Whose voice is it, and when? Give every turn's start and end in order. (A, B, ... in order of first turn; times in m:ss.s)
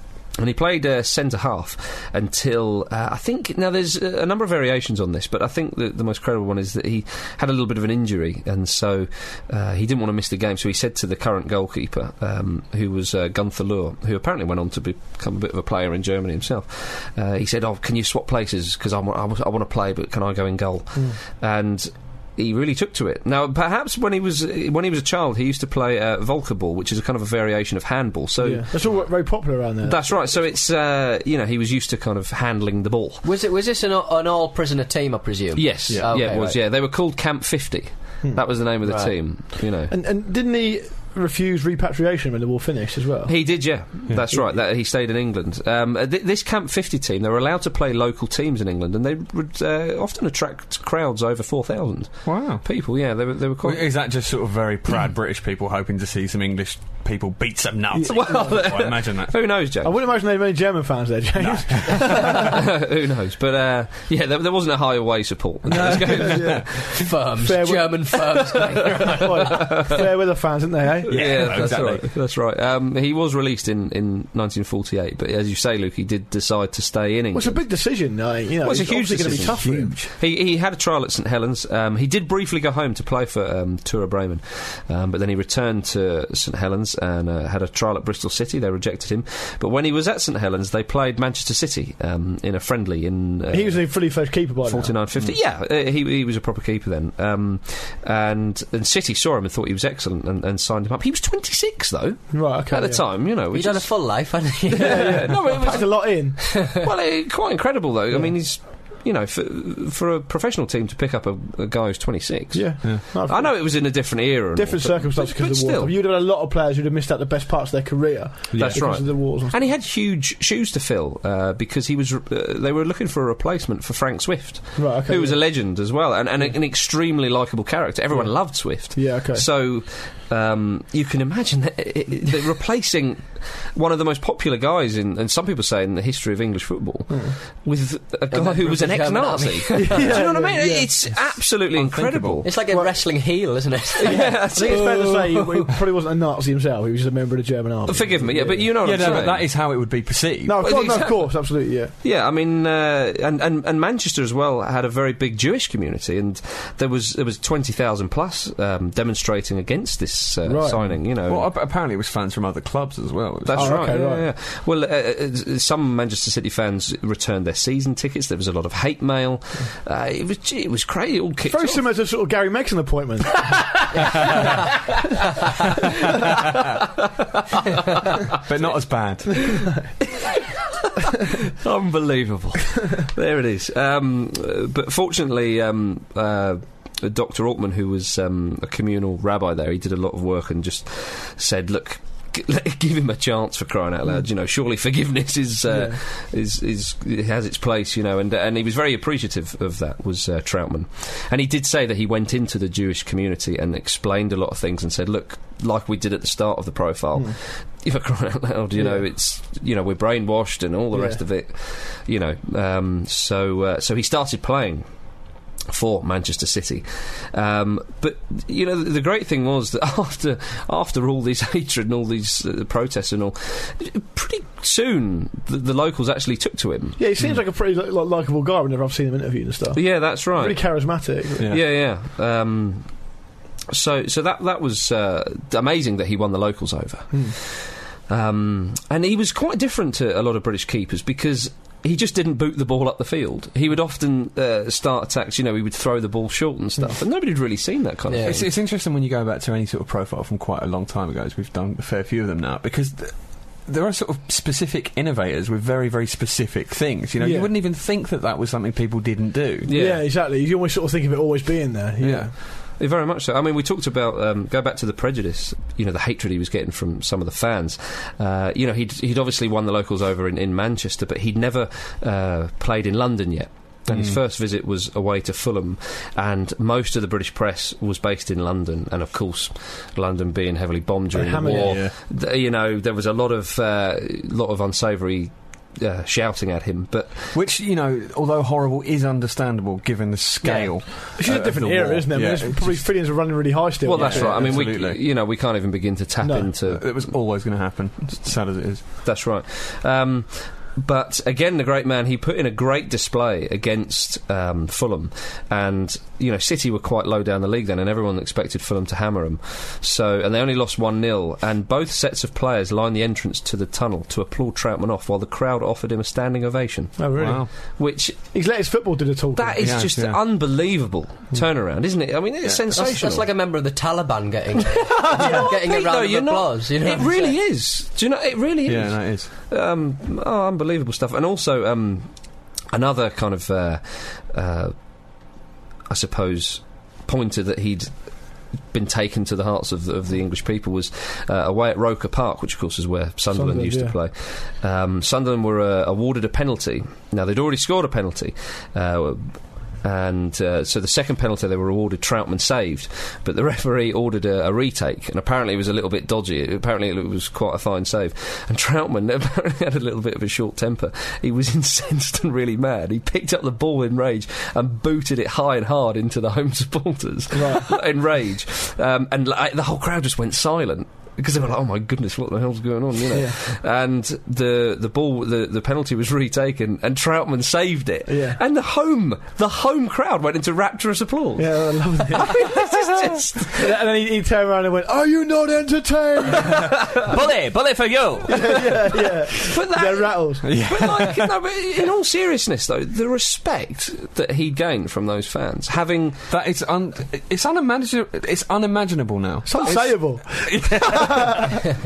0:00.4-0:29.0 A
0:28.4-0:30.0 B
0:29.8-0:33.2 A
0:33.2-0:36.6 C
0:35.6-0:39.9 A
0:35.9-0:36.4 D
0:38.2-0:38.5 B
0:38.8-0:39.1 C
0:39.9-0:43.3 B
0:43.3-0:53.8 A
0:52.2-0:52.6 D
0:53.6-0:59.4 D
0:57.9-0:58.6 B
0:58.1-0:59.9 A
0:59.8-1:02.6 B
1:01.4-1:02.5 D
1:02.2-1:06.9 A
1:05.7-1:07.0 D
1:05.9-1:06.8 B
1:06.9-1:09.7 C
1:07.4-1:08.2 B
1:09.1-1:11.6 B
1:11.1-1:17.6 A
1:11.1-1:12.1 D
1:17.3-1:20.0 B
1:18.6-1:56.0 A
1:19.2-1:20.1 D
1:33.5-1:35.0 B
1:42.3-1:43.0 B
1:43.5-1:45.7 C
1:44.7-1:46.6 B
1:52.5-1:59.6 B
1:58.5-1:59.0 D
1:58.6-2:22.5 A
2:04.8-2:05.4 B
2:08.1-2:09.4 B
2:17.1-2:17.4 B
2:18.3-2:20.2 C
2:19.7-2:20.9 B
2:21.1-2:22.5 D
2:22.4-2:25.1 C
2:22.7-2:23.0 B
2:24.0-2:25.1 A
2:24.1-2:29.2 B
2:27.9-2:29.5 A
2:28.8-2:30.8 D
2:30.4-2:31.9 B
2:30.6-2:41.5 A
2:40.4-2:41.0 B
2:41.3-2:43.9 D
2:43.4-2:51.8 A
2:43.6-2:44.2 B
2:51.5-2:53.7 B
2:56.2-2:58.2 A
2:58.4-2:59.5 D
2:59.6-3:34.9 A
3:15.7-3:16.0 B
3:28.8-3:29.0 B
3:30.9-3:31.2 B
3:35.7-3:47.0 A
3:47.0-3:51.5 B
3:49.7-3:50.6 A
3:51.5-3:52.9 A
3:53.7-4:08.5 A
4:08.1-4:08.4 C
4:08.2-4:19.7 D
4:17.2-4:17.5 B
4:19.7-4:20.1 A
4:19.7-4:22.3 B
4:22.0-4:22.3 D
4:22.8-4:47.4 A
4:33.9-4:34.2 D
4:41.1-4:41.8 B
4:41.4-4:41.9 D
4:47.3-4:52.9 D
4:50.4-4:54.6 B
4:53.8-4:57.0 A
4:53.9-4:55.0 D
4:56.2-4:56.5 B
4:56.6-4:58.9 D
4:59.0-5:18.3 A
5:17.0-5:17.6 B
5:17.2-5:17.5 D
5:18.3-5:19.8 B
5:19.4-5:23.3 A
5:19.6-5:20.2 D
5:22.7-5:27.4 C
5:24.9-5:32.1 A
5:25.2-5:25.5 B
5:28.7-5:29.3 D
5:32.7-5:34.8 A
5:35.9-5:38.0 A
5:38.7-6:23.8 A
5:43.3-5:44.0 B
6:07.3-6:07.7 B
6:13.1-6:13.4 B
6:18.1-6:18.4 B
6:21.4-6:22.6 B
6:23.5-6:26.8 B
6:26.4-6:27.1 A
6:27.0-6:28.8 D
6:28.3-6:30.5 B
6:29.4-6:36.2 A
6:30.4-6:31.3 D
6:36.3-6:41.6 D
6:39.4-6:41.6 B
6:39.6-6:39.8 A